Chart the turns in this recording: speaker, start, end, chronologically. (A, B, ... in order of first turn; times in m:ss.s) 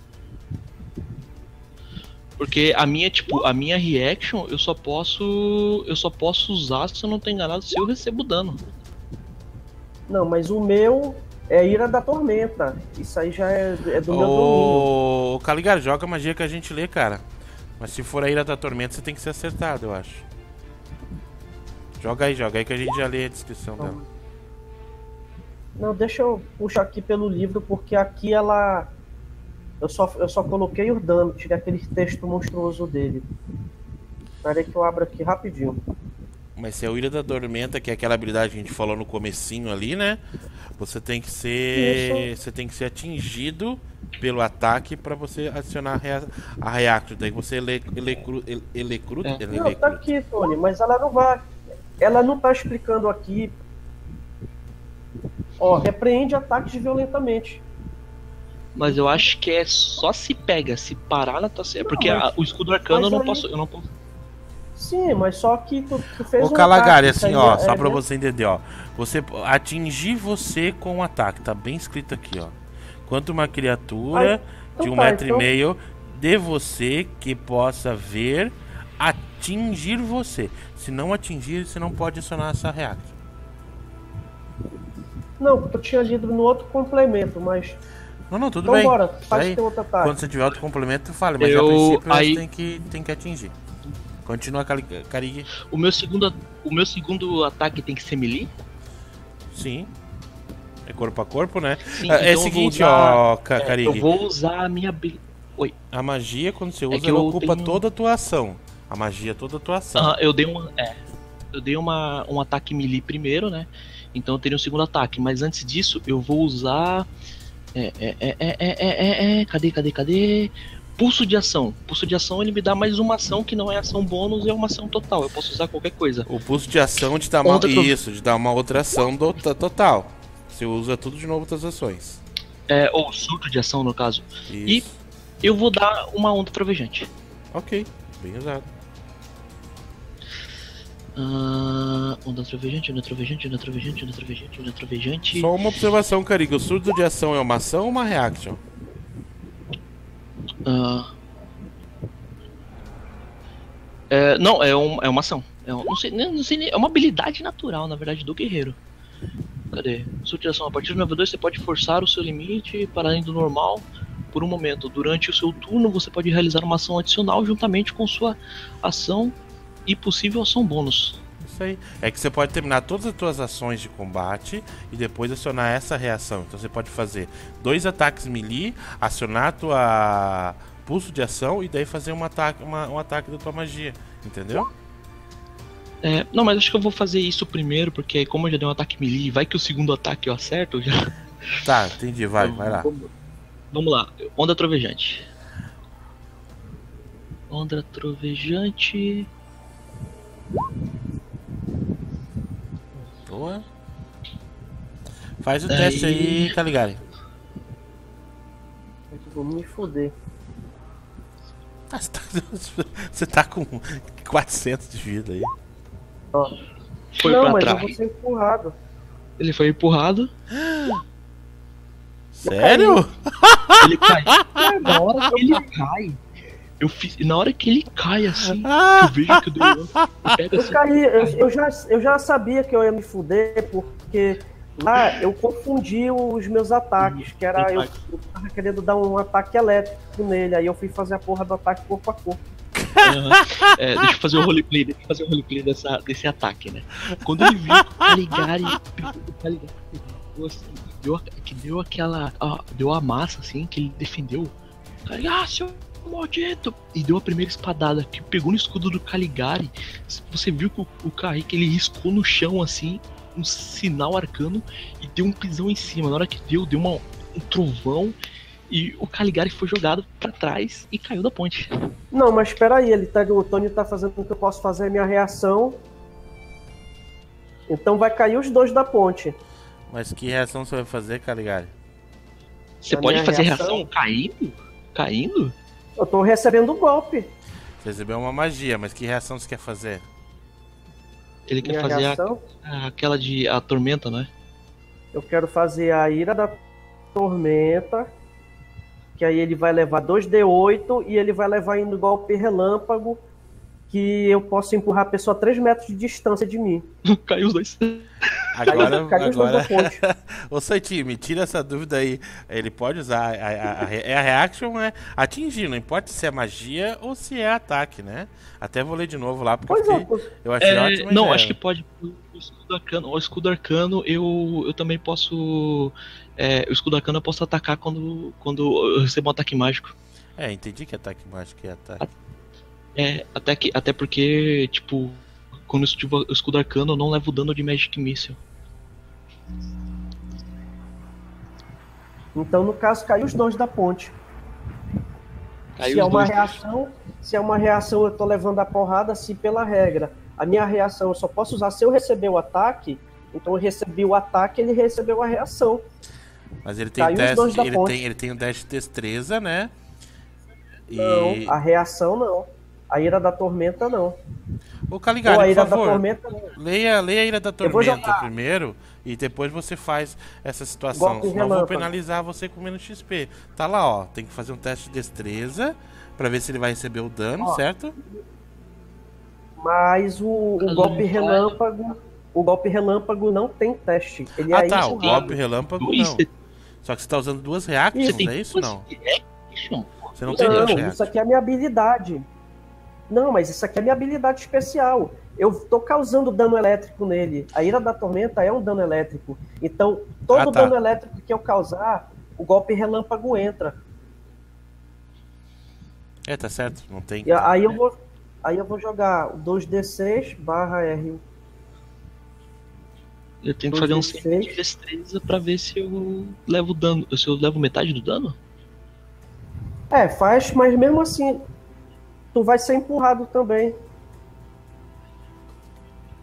0:02.4-0:08.6 A
0:10.1-0:14.9 B
0:14.1-0:17.3 C
0:17.8-0:20.3 C
0:22.0-0:24.0 C
0:23.8-0:24.0 B
0:25.8-0:28.9 B
0:29.8-0:33.3 B
0:34.4-0:35.8 B
0:36.6-0:40.2 C
0:40.8-0:50.0 C
0:41.8-0:42.3 B
0:49.5-0:51.5 B
0:52.0-0:53.6 B
0:55.6-0:57.6 B
0:58.8-1:03.9 A
1:01.8-1:02.3 B
1:02.9-1:03.5 B
1:04.8-1:08.0 B
1:06.4-1:12.6 C
1:13.1-1:23.2 C
1:14.1-1:15.5 B
1:25.4-1:27.8 B
1:28.3-1:33.5 C
1:28.6-1:30.2 B
1:31.4-1:32.4 A
1:34.3-1:35.5 C
1:35.7-1:38.5 A
1:39.5-1:39.9 C
1:40.9-1:44.1 C
1:41.9-1:45.7 A
1:45.9-1:50.2 C
1:46.9-1:47.8 A
1:50.0-1:51.0 A
1:51.5-1:57.1 A
1:57.8-2:06.3 A
2:06.3-2:12.2 C
2:07.4-2:08.0 A
2:12.7-2:14.9 A
2:14.5-2:15.0 C
2:15.4-2:17.1 A
2:17.5-2:18.7 C
2:21.2-2:25.5 A
2:25.3-2:28.6 C
2:30.7-2:31.1 A
2:34.1-2:38.8 A
2:39.7-2:49.4 A
2:49.9-2:51.2 A
2:51.4-3:04.7 C
3:06.0-3:11.1 A
3:11.6-3:12.9 C
3:12.4-3:13.1 A
3:13.7-3:15.3 A
3:17.5-3:19.3 A
3:23.3-3:23.6 C
3:25.4-3:27.0 C
3:25.7-3:26.6 A
3:29.1-3:30.1 B
3:31.9-3:35.5 C
3:37.1-3:38.0 A
3:37.2-3:38.8 B
3:39.4-3:40.3 A
3:40.6-3:41.0 C
3:42.3-3:44.7 C
3:42.4-3:43.0 B
3:43.8-3:46.2 A
3:44.6-3:45.6 B
3:46.8-3:51.4 A
3:48.6-3:49.4 C
3:50.6-4:02.4 B
3:57.0-3:57.9 A
4:02.8-4:03.6 C
4:03.0-4:14.5 A
4:15.1-4:28.2 A
4:28.7-4:31.7 A
4:32.1-4:35.8 B
4:37.7-4:39.4 B
4:39.9-4:41.7 C
4:42.8-4:45.5 A
4:42.9-4:43.9 B
4:46.0-4:47.3 B
4:47.8-4:50.0 C
4:51.5-4:54.3 A
4:51.6-4:52.4 B
4:55.1-4:56.6 B
4:57.2-4:58.1 B
4:59.2-5:03.2 B
5:03.9-5:06.8 B
5:07.1-5:09.0 A
5:08.5-5:21.6 C
5:08.7-5:10.0 B
5:19.7-5:20.3 B
5:20.6-5:29.9 A
5:30.4-5:32.0 C
5:33.0-5:38.4 A
5:42.4-5:44.2 B
5:45.8-5:46.6 A
5:45.8-5:55.8 B
5:56.6-5:59.7 C
5:57.0-5:58.0 B
6:00.9-6:01.6 C
6:00.9-6:04.2 B
6:04.9-6:06.0 C
6:05.3-6:06.6 B
6:06.6-6:18.0 C
6:07.6-6:08.3 B
6:10.9-6:11.9 B
6:19.6-6:25.4 B
6:20.6-6:21.6 A
6:24.5-6:26.2 C
6:24.8-6:26.3 A
6:26.8-6:28.8 C
6:28.0-6:30.8 A
6:30.2-6:31.1 C
6:30.3-6:32.2 B
6:33.1-6:43.8 B
6:40.3-6:40.7 C
6:46.3-6:47.8 C
6:47.3-6:51.2 B
6:53.4-6:58.4 A
6:53.7-6:54.5 B
6:59.9-7:01.4 B
7:02.3-7:03.8 B